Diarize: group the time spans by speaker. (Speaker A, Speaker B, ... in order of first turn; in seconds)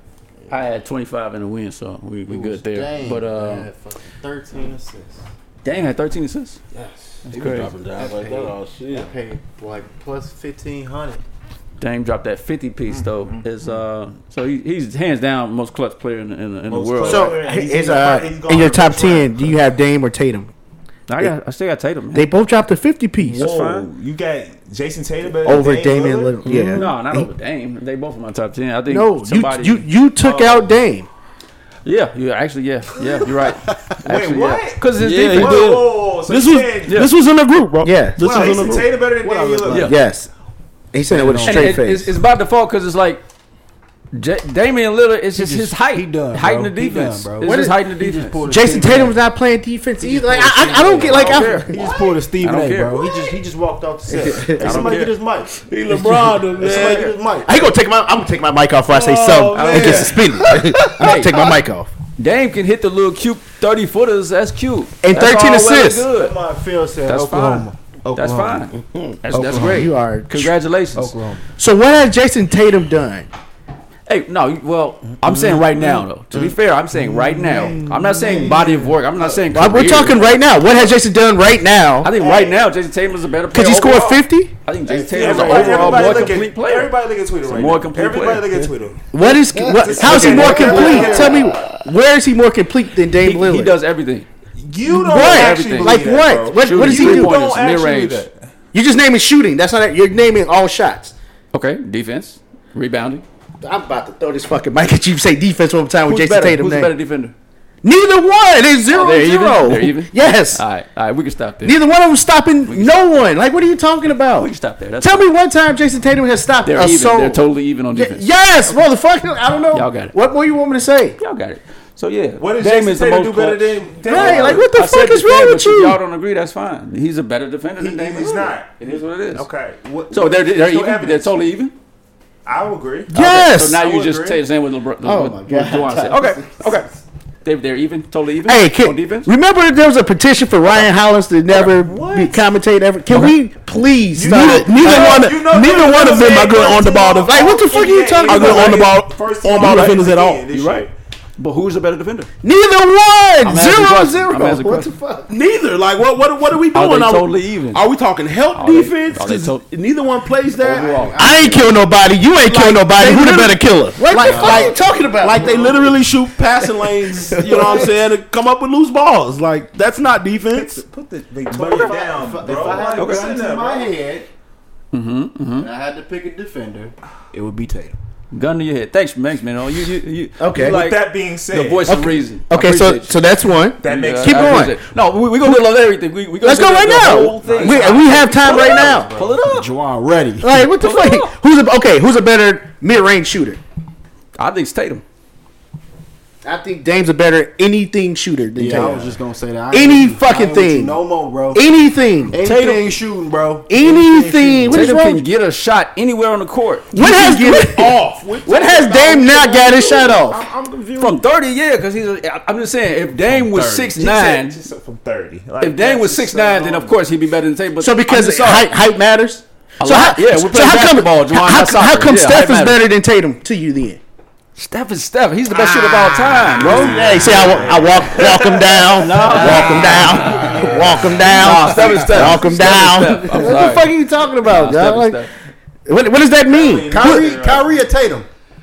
Speaker A: 0.5-3.7, 5.6-6.6, 7.3-7.7, 11.8-17.3, 21.1-22.3, 23.2-23.9, 26.5-30.7, 31.8-35.8, 39.6-40.0, 41.4-43.2, 44.1-48.4, 51.0-53.1, 54.5-55.1, 56.6-57.1, 59.5-61.4, 62.2-66.4, 67.0-71.2, 74.1-80.4, 82.0-86.9, 87.5-88.7, 90.2-90.8, 93.2-94.3, 95.0-98.3, 101.5-103.2, 106.0-107.3, 108.9-111.8, 112.7-113.2, 114.4-115.3, 116.6-118.3, 119.7-120.1, 121.2-129.4, 130.1-131.7, 133.1-136.9, 137.4-139.3, 150.5-152.3, 153.4-154.9, 156.7-157.8, 158.5-159.6, 160.6-161.7, 171.5-171.9, 172.9-173.3, 174.9-175.7, 178.3-183.1, 183.8-189.7, 190.7-191.3, 194.4-195.0, 202.5-202.8, 204.7-206.9, 211.0-214.6, 215.6-218.7, 219.8-222.8, 224.6-227.1, 228.9-235.3
Speaker B: 2.3-5.3, 6.7-11.2, 38.3-40.0, 41.1-41.8, 45.3-49.2, 50.0-57.7, 66.1-68.7, 69.3-69.9, 71.0-71.4, 75.2-79.3, 84.9-86.3, 89.2-91.6, 133.8-134.4, 160.6-161.8, 167.3-167.8, 171.6-174.3, 175.6-177.9, 188.6-190.7, 198.6-201.6, 202.3-204.9, 236.9-238.3
Speaker C: 7.3-9.1, 26.5-26.8, 35.0-38.9, 55.7-57.1, 58.9-60.4, 68.8-69.2, 144.2-147.4, 148.2-150.4, 155.3-160.9, 162.4-170.8, 206.9-211.2, 226.7-227.9
Speaker D: 13.0-13.4, 16.7-19.6, 23.3-26.4, 34.0-37.0, 38.2-39.9, 82.2-82.7, 84.9-89.1, 89.8-91.5, 94.6-98.4, 122.4-124.7, 127.8-131.4, 132.4-133.1, 141.5-142.4, 144.1-150.9, 164.2-164.8, 170.5-173.9, 180.5-182.0, 183.8-184.7, 187.4-189.4, 213.2-217.0, 225.5-232.4, 236.5-237.8
Speaker E: 17.0-20.5, 22.1-23.5, 25.4-27.3, 28.9-31.1, 37.8-38.7, 39.8-40.3, 40.9-42.1, 47.4-47.8, 48.5-51.8, 54.1-54.9, 57.5-61.9, 65.0-66.1, 69.5-70.5, 71.6-73.3, 79.5-82.1, 83.5-84.5, 89.1-93.8, 94.9-97.3, 98.7-101.1, 103.6-106.9, 107.8-110.6, 111.6-121.2, 124.1-126.0, 133.1-133.9, 135.0-136.7, 138.4-145.3, 147.3-148.9, 149.6-149.9, 152.4-155.3, 161.2-165.9, 167.4-167.9, 180.4-180.8, 181.9-184.8, 186.4-189.1, 190.4-193.6, 196.4-199.2, 199.7-201.0, 201.5-202.5, 203.7-205.2, 206.9-210.4, 217.8-224.0, 226.7-235.3, 235.9-237.3